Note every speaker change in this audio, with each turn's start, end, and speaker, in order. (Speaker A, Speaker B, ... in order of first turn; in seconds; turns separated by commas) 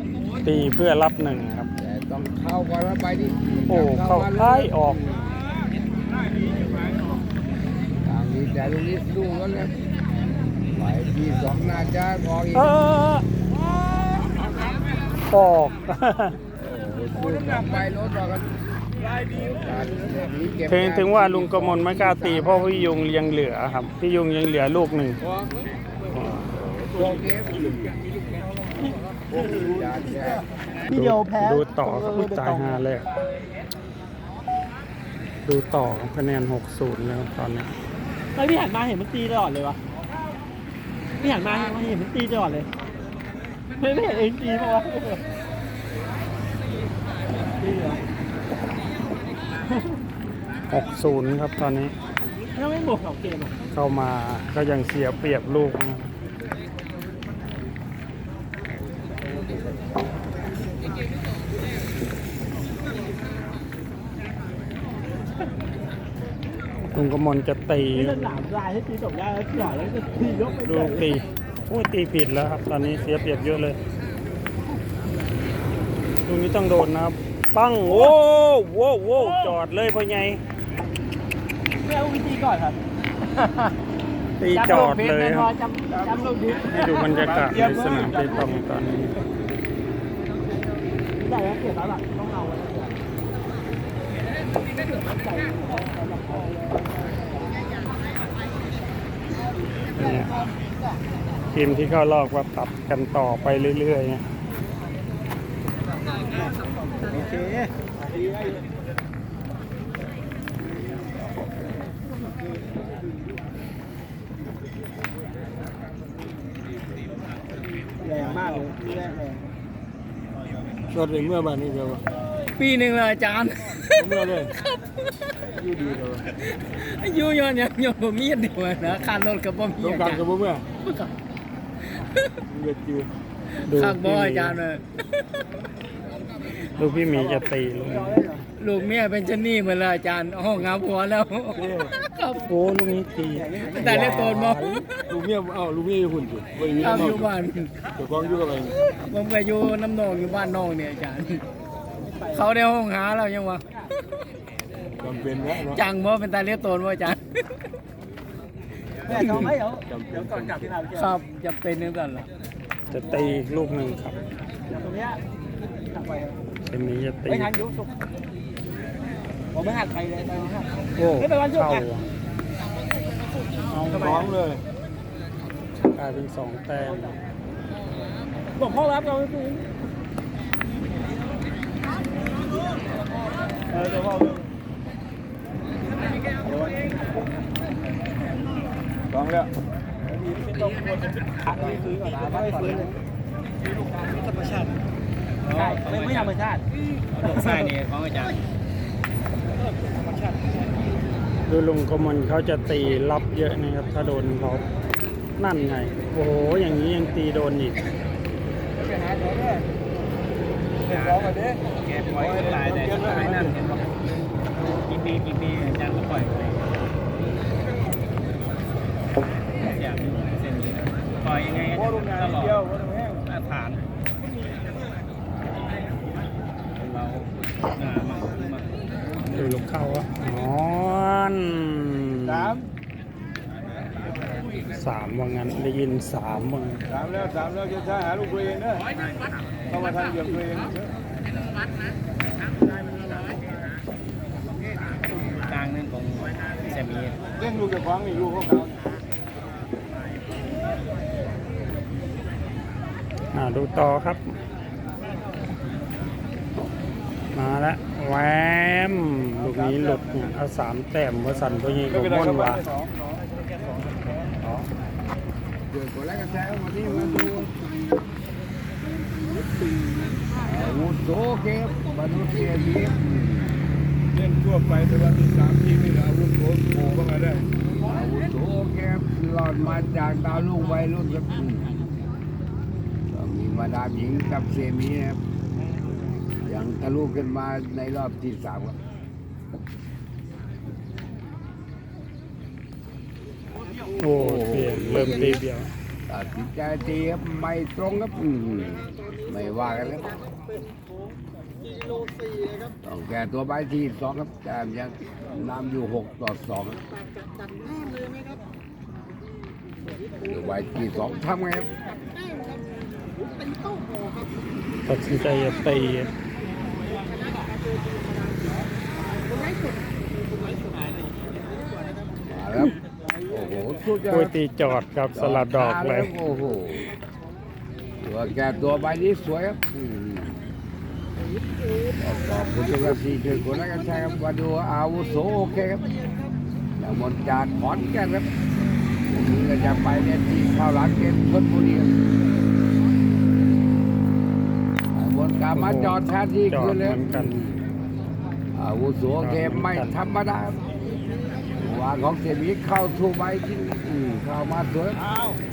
Speaker A: 0.4-1.7, Speaker B: 1.8-5.3, Speaker A: 3.7-5.0, Speaker C: 6.1-7.2, Speaker B: 8.0-9.7, Speaker B: 10.7-12.8, Speaker A: 12.5-13.2, Speaker A: 15.3-16.4, Speaker B: 16.6-18.5, Speaker C: 17.2-17.7, Speaker C: 19.0-19.5, Speaker B: 19.3-23.0, Speaker A: 20.7-25.2, Speaker C: 25.2-25.6, Speaker A: 26.1-26.4, Speaker C: 26.6-27.9, Speaker B: 26.9-27.9, Speaker B: 29.3-30.4, Speaker D: 29.4-29.8, Speaker D: 30.9-32.8, Speaker A: 30.9-33.0, Speaker A: 35.4-37.7, Speaker D: 38.3-39.8, Speaker D: 41.1-42.7, Speaker D: 43.8-45.2, Speaker D: 47.6-48.0, Speaker A: 50.7-51.9, Speaker D: 52.5-53.6, Speaker A: 53.7-56.1, Speaker A: 66.9-68.4, Speaker D: 67.9-71.2, Speaker A: 70.6-73.8, Speaker A: 76.2-80.4, Speaker D: 77.9-78.1, Speaker D: 79.2-79.5, Speaker D: 81.8-82.8, Speaker A: 84.4-85.5, Speaker D: 84.5-87.6, Speaker C: 85.9-88.5, Speaker A: 86.7-89.1, Speaker D: 91.2-92.9, Speaker D: 94.6-97.7, Speaker A: 100.0-100.3, Speaker A: 101.5-104.2, Speaker D: 107.0-108.6, Speaker D: 118.0-119.4, Speaker C: 118.2-118.7, Speaker C: 120.9-122.0, Speaker E: 122.6-124.0, Speaker C: 124.0-124.5, Speaker C: 125.5-126.2, Speaker E: 126.7-130.2, Speaker C: 129.8-130.7, Speaker E: 130.8-131.1, Speaker C: 132.4-133.1, Speaker A: 133.6-134.6, Speaker E: 133.7-134.8, Speaker A: 136.8-138.2, Speaker D: 137.1-138.4, Speaker E: 138.6-141.6, Speaker C: 141.5-141.9, Speaker A: 142.4-144.8, Speaker D: 143.3-144.3, Speaker E: 143.8-144.6, Speaker C: 145.1-147.3, Speaker E: 146.7-147.7, Speaker C: 147.9-148.8, Speaker E: 149.0-151.4, Speaker D: 152.0-152.5, Speaker E: 152.3-153.6, Speaker C: 155.0-155.8, Speaker E: 155.7-157.2, Speaker D: 159.1-161.2, Speaker C: 159.9-160.7, Speaker E: 160.9-162.3, Speaker A: 162.9-164.2, Speaker D: 164.7-165.2, Speaker D: 165.8-166.4, Speaker A: 166.7-167.5, Speaker D: 167.3-167.9, Speaker D: 169.5-171.8, Speaker A: 170.9-172.0, Speaker D: 173.7-174.4, Speaker A: 173.8-174.3, Speaker C: 173.9-174.6, Speaker A: 175.9-177.1, Speaker D: 176.8-177.2, Speaker D: 178.6-179.7, Speaker D: 183.7-184.4, Speaker D: 186.5-186.8, Speaker C: 189.1-189.5, Speaker D: 190.1-192.9, Speaker E: 195.4-196.3, Speaker D: 195.5-196.6, Speaker E: 197.1-198.4, Speaker D: 197.2-197.7, Speaker A: 201.5-204.6, Speaker A: 205.4-207.8, Speaker C: 208.7-209.7, Speaker C: 210.8-213.7, Speaker E: 210.8-213.8, Speaker E: 214.6-216.8, Speaker E: 219.6-222.6, Speaker C: 221.7-223.2, Speaker E: 223.2-223.8, Speaker E: 226.8-228.7, Speaker A: 229.3-232.6, Speaker C: 232.2-232.7, Speaker A: 234.7-236.8, Speaker C: 236.9-238.9, Speaker C: 239.7-240.9, Speaker E: 245.1-247.2, Speaker C: 247.3-248.8, Speaker A: 253.3-254.3, Speaker A: 257.3-262.6, Speaker C: 259.4-260.0, Speaker C: 261.9-264.6, Speaker B: 265.7-267.5, Speaker B: 270.4-273.6, Speaker C: 274.1-277.5, Speaker B: 277.8-281.7, Speaker B: 283.1-285.2, Speaker B: 286.4-288.7, Speaker A: 294.0-295.7, Speaker B: 294.0-295.4, Speaker B: 296.1-300.2, Speaker B: 302.8-306.8, Speaker B: 310.2-311.7, Speaker A: 314.9-316.1, Speaker B: 322.3-322.7, Speaker B: 323.3-324.3, Speaker A: 324.1-326.1, Speaker B: 325.1-326.9, Speaker B: 328.0-330.4, Speaker B: 332.0-335.9, Speaker B: 336.8-338.3, Speaker B: 339.1-342.0, Speaker B: 344.9-347.6, Speaker A: 345.5-346.0, Speaker A: 346.5-347.4, Speaker B: 348.5-350.6, Speaker A: 349.2-349.9, Speaker B: 351.6-355.0